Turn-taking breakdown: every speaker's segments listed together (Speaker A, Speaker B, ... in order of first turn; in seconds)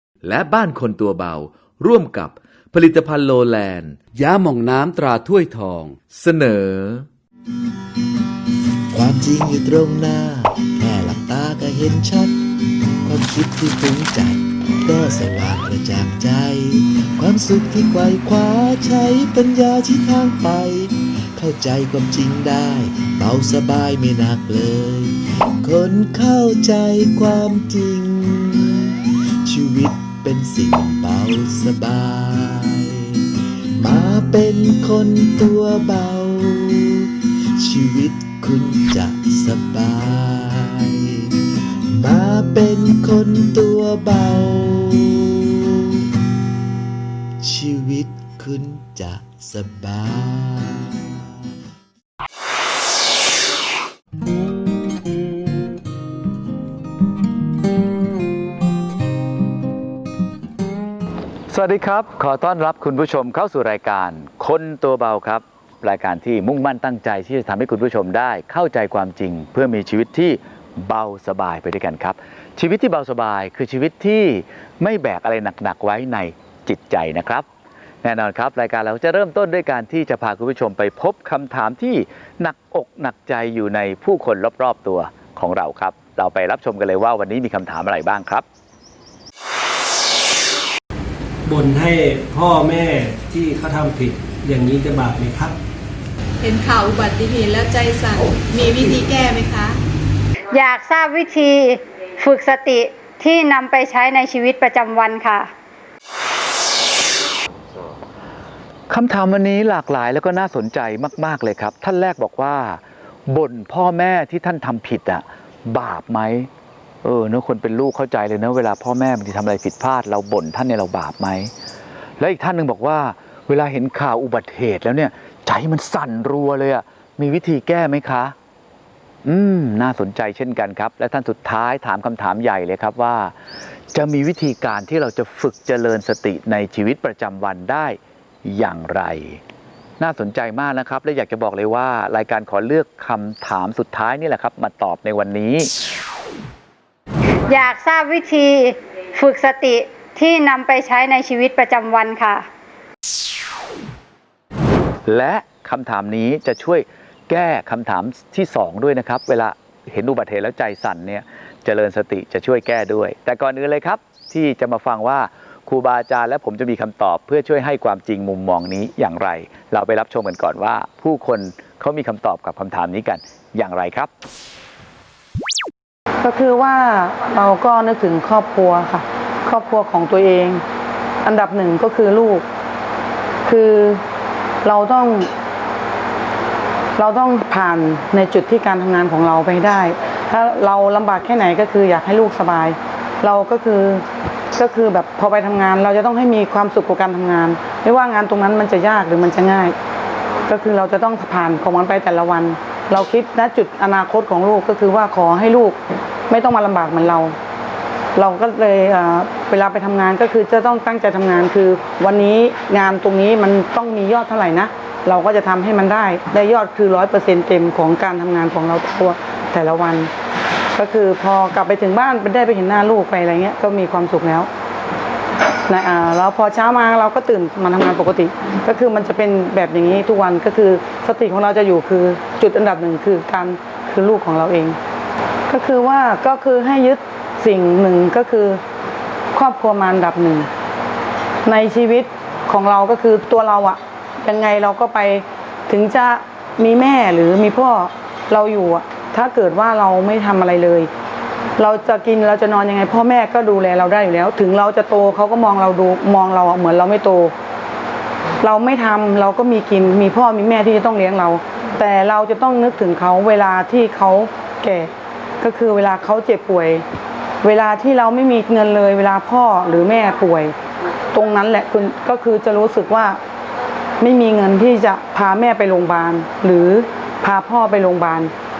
Speaker A: 0.2-7.1
Speaker B: 0.5-2.1, 2.7-3.8, 61.5-77.5, 78.0-88.4, 108.9-116.5, 117.0-121.5, 122.2-128.3, 129.2-133.3, 133.9-139.4, 140.0-145.7, 155.1-174.1
Speaker C: 8.9-33.2, 33.8-41.3, 41.9-46.0, 47.4-51.2
Speaker D: 91.5-95.6
Speaker E: 96.4-99.8
Speaker F: 100.5-105.5, 147.5-152.4
Speaker G: 176.2-180.6, 181.2-182.4, 183.4-184.0, 184.6-185.3, 187.0-199.8, 200.5-207.3, 208.1-220.1, 220.8-224.5, 225.7-234.8, 235.5-238.6, 239.3-240.5, 241.4-250.9, 251.6-257.3, 258.4-266.8, 267.4-270.5, 271.1-273.2, 274.0-278.3